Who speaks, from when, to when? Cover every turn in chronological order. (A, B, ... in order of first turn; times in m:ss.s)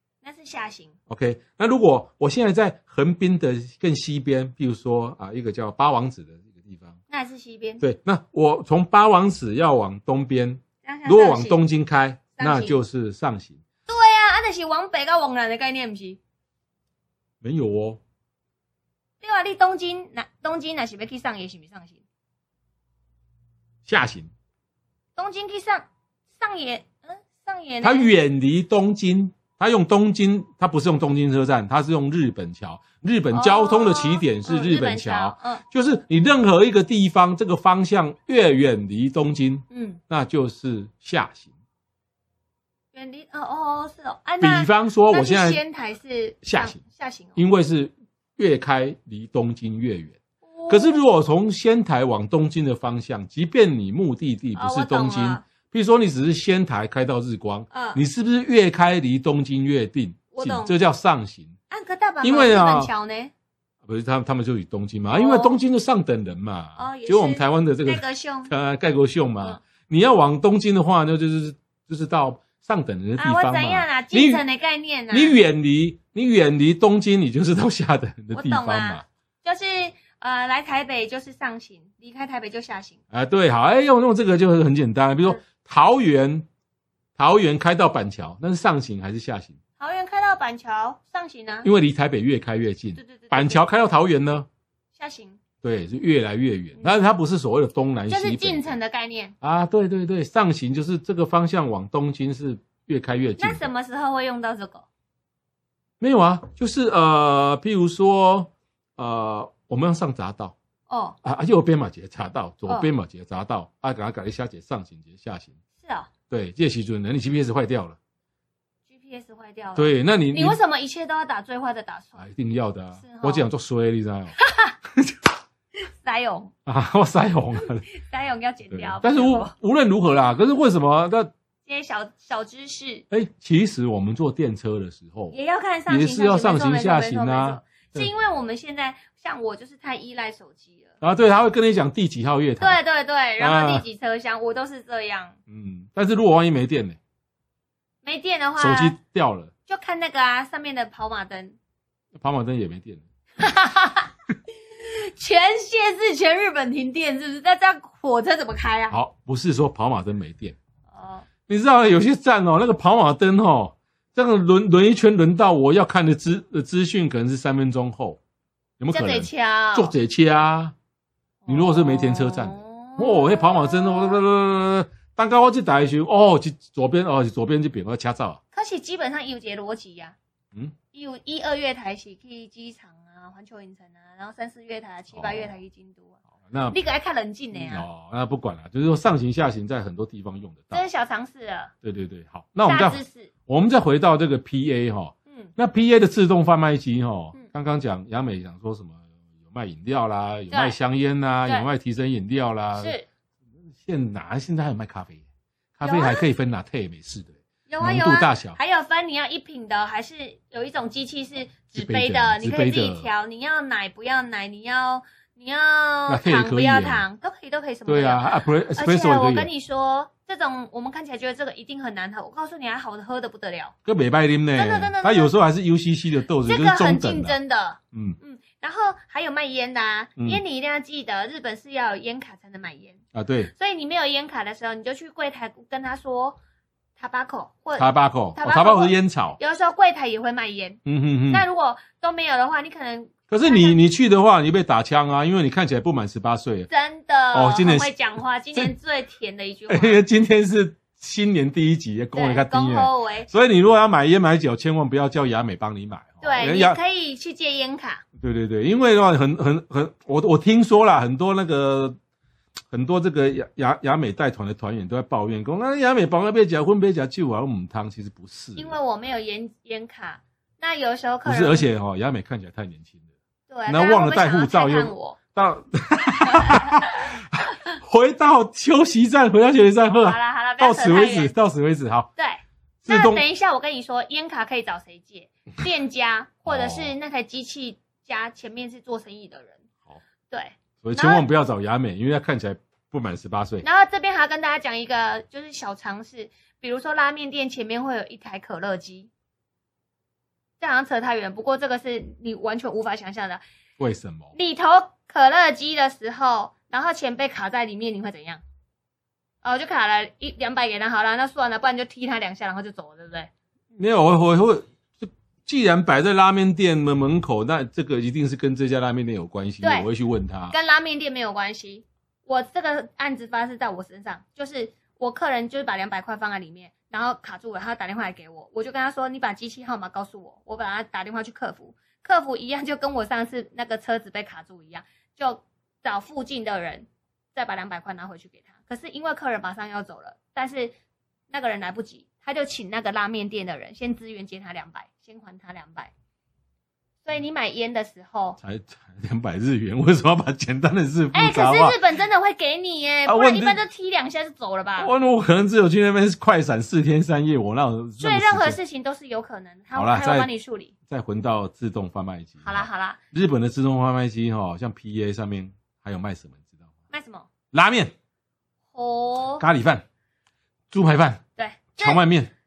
0:00.2-0:00.9 A
0:01.1-0:07.0 B
0:07.1-0:07.8 A
0:07.8-0:13.6 B
0:10.8-0:11.6 A
0:12.4-0:12.8 A
0:13.9-0:16.2 A
0:17.4-0:18.0 B
0:19.2-0:22.0 A
0:23.9-0:24.3 B
0:25.2-0:28.1 A
0:27.8-0:41.5 B
0:33.3-0:35.6 A
0:39.7-0:40.0 A
0:42.9-0:47.4 A
0:44.4-0:45.6 B
0:46.4-0:46.8 B
0:47.4-0:50.2 B
0:50.4-0:51.0 A
0:50.7-1:01.6 B
0:54.6-0:55.4 A
0:57.7-0:58.0 A
1:00.3-1:00.7 A
1:01.7-1:03.3 A
1:02.2-1:02.9 B
1:03.8-1:14.4 B
1:05.1-1:05.6 A
1:06.8-1:08.5 A
1:13.2-1:15.4 A
1:15.1-1:19.0 B
1:18.3-1:23.0 A
1:23.1-1:26.5 B
1:27.2-1:29.6 B
1:29.8-1:31.7 A
1:31.6-1:34.5 B
1:33.0-1:33.6 A
1:35.0-1:35.4 A
1:35.6-1:38.8 B
1:38.1-1:39.4 A
1:39.4-1:43.7 B
1:43.4-1:44.9 A
1:46.0-1:50.6 B
1:50.9-1:51.2 A
1:51.2-1:55.6 B
1:55.8-1:56.1 A
1:56.3-1:58.0 B
1:58.9-2:02.2 A
1:59.8-2:00.6 B
2:02.2-2:04.4 B
2:03.0-2:03.5 A
2:04.4-2:04.7 A
2:05.8-2:06.5 A
2:06.7-2:07.9 B
2:07.9-2:09.5 A
2:08.7-2:11.3 B
2:11.7-2:13.1 A
2:13.1-2:15.4 B
2:15.3-2:21.0 A
2:15.9-2:18.1 B
2:21.0-2:22.8 B
2:22.6-2:25.4 A
2:23.4-2:23.8 B
2:25.5-2:27.0 B
2:28.0-2:29.0 A
2:28.6-2:29.5 B
2:29.7-2:31.6 A
2:32.2-2:33.0 B
2:33.4-2:39.0 A
2:38.9-2:40.6 B
2:40.9-2:41.3 A
2:41.5-2:48.2 B
2:48.8-2:50.8 B
2:48.9-2:49.9 A
2:51.4-2:54.2 A
2:51.5-2:58.4 B
2:58.5-3:00.2 A
3:00.9-3:06.2 A
3:05.1-3:05.5 B
3:06.5-3:06.8 B
3:06.7-3:07.9 A
3:07.5-3:10.8 B
3:10.7-3:11.7 A
3:11.8-3:23.0 B
3:12.7-3:13.3 A
3:20.5-3:20.8 A
3:22.8-3:23.1 A
3:23.8-3:25.2 B
3:25.8-3:28.6 B
3:25.8-3:26.2 A
3:27.7-3:43.8 A
3:31.8-3:33.1 B
3:36.1-3:37.0 B
3:37.9-3:39.5 B
3:43.8-3:47.4 B
3:44.6-3:45.3 A
3:46.4-3:56.4 A
3:47.9-3:48.2 B
3:53.1-3:53.5 B
3:57.0-4:03.8 A
3:57.8-3:59.4 B
4:00.9-4:01.4 B
4:03.3-4:06.7 B
4:06.7-4:10.0 A
4:07.3-4:07.9 B
4:09.7-4:16.8 B
4:12.2-4:13.3 A
4:16.2-4:18.0 A
4:18.2-4:22.0 B
4:22.7-4:28.8 B
4:28.6-4:31.7 A
4:31.2-4:33.0 B
4:33.5-4:35.2 A
4:33.7-4:42.1 B
4:36.2-4:37.1 A
4:40.0-4:41.3 A
4:42.2-4:49.6 A
4:42.8-4:43.2 B
4:46.5-4:46.9 B
4:50.3-4:51.2 A
4:50.8-4:53.7 B
4:53.6-4:59.1 A
5:00.6-5:03.4 A
5:03.8-5:04.3 B
5:04.4-5:08.4 A
5:09.4-5:13.3 A
5:13.8-5:20.6 B
5:19.6-5:19.9 A
5:20.5-5:40.8 A
5:41.3-5:45.9 A
5:47.0-5:48.4 A
5:48.4-5:51.8 B
5:51.1-5:54.9 A
5:53.1-5:53.6 B
5:54.8-5:58.6 B
5:58.0-6:00.7 A
5:59.7-6:00.3 B
6:00.9-6:06.5 B
6:02.4-6:03.0 A
6:06.9-6:07.3 A
6:07.5-6:07.9 B
6:08.7-6:09.4 A
6:09.4-6:09.8 B
6:10.7-6:11.2 B
6:11.4-6:12.0 A
6:11.8-6:12.3 B